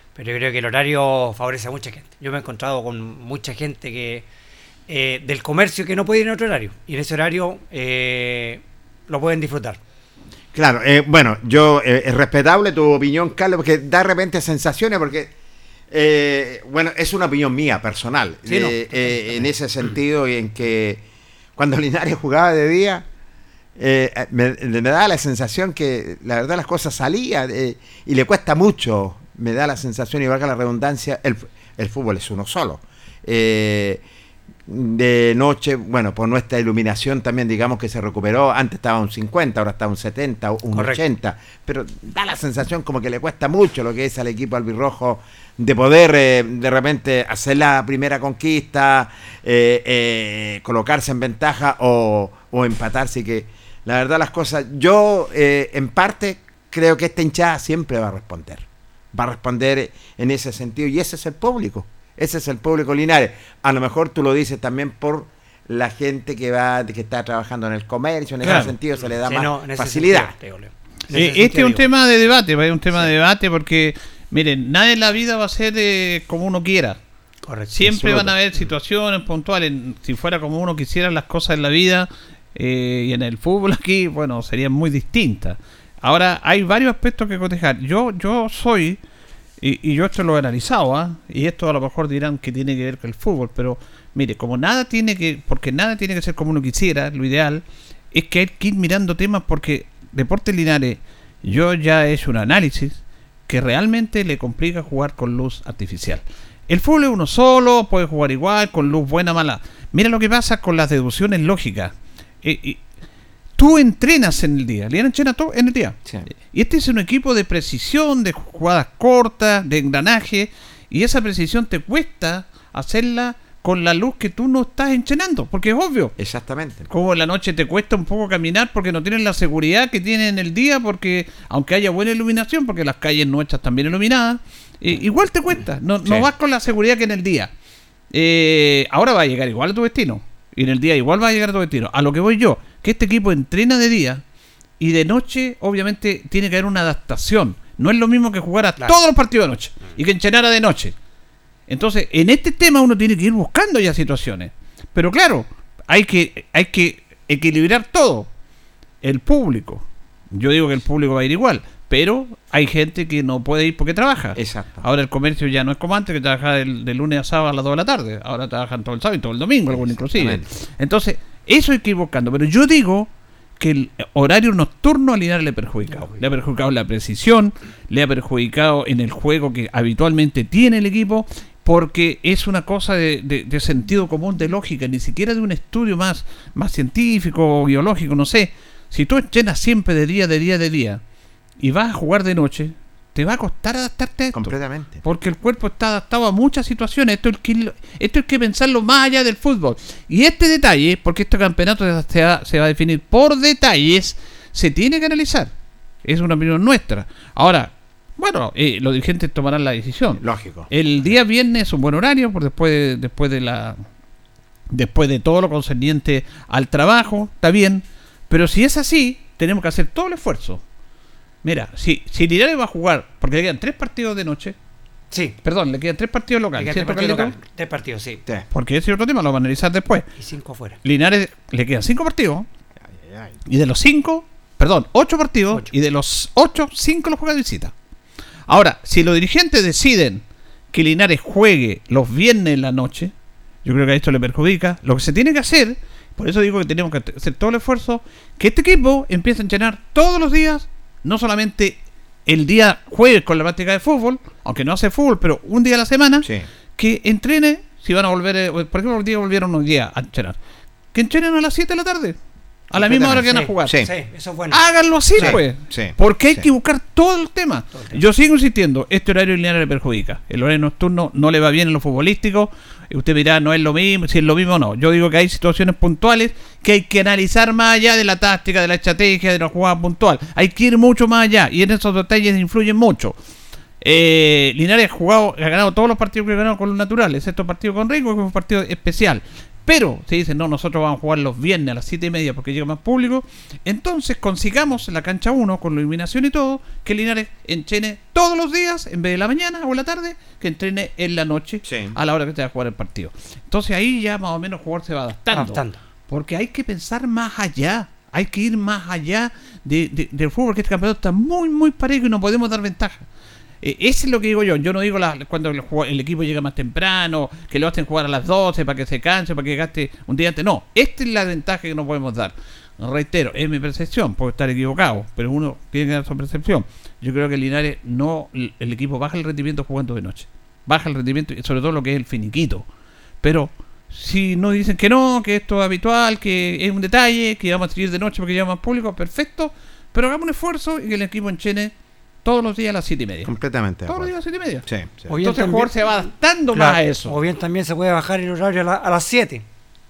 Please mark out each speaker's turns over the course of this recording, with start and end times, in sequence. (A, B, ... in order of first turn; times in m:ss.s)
0:00.2-0:04.2 A
0:04.9-0:09.8 A
0:10.5-0:15.3 B
0:15.9-0:21.0 B
0:18.5-0:19.1 C
0:21.6-0:23.0 B
0:23.8-0:34.0 B
0:34.7-1:10.3 B
0:40.7-0:41.0 A
1:08.4-1:08.7 C
1:09.2-1:11.8 A
1:11.1-1:17.0 C
1:17.4-1:18.6 A
1:17.7-1:29.0 C
1:29.6-1:52.8 C
1:53.6-1:56.0 C
1:56.5-2:06.1 C
2:06.2-2:06.9 B
2:06.9-2:17.5 C
2:18.1-2:24.2 C
2:24.8-2:30.9 C
2:31.7-2:38.3 C
2:39.0-3:11.0 C
2:44.4-2:44.9 B
2:49.7-2:50.6 B
2:55.9-2:56.2 A
3:11.6-3:25.5 C
3:14.3-3:15.0 B
3:26.0-3:33.8 C
3:30.2-3:30.7 B
3:34.7-3:40.6 C
3:41.4-3:44.6 C
3:45.1-3:45.4 A
3:45.4-3:47.4 C
3:46.6-3:48.2 A
3:48.5-3:50.1 C
3:50.2-3:50.8 A
3:50.8-3:52.5 C
3:52.8-3:53.4 B
3:53.4-3:57.7 C
3:58.5-4:03.1 C
4:03.6-4:20.4 C
4:20.9-4:22.2 C
4:22.7-4:23.8 C
4:22.8-4:23.9 B
4:23.0-4:24.6 A
4:24.5-4:43.2 C
4:25.2-4:26.4 B
4:27.7-4:28.0 A
4:43.8-5:13.0 C
5:01.6-5:01.9 B
5:05.3-5:05.8 A
5:13.6-5:32.7 C
5:33.2-5:41.7 C
5:42.2-5:43.3 C
5:43.2-5:44.1 B
5:43.9-5:47.2 C
5:44.6-5:45.1 B
5:45.1-5:45.9 A
5:46.5-5:49.4 A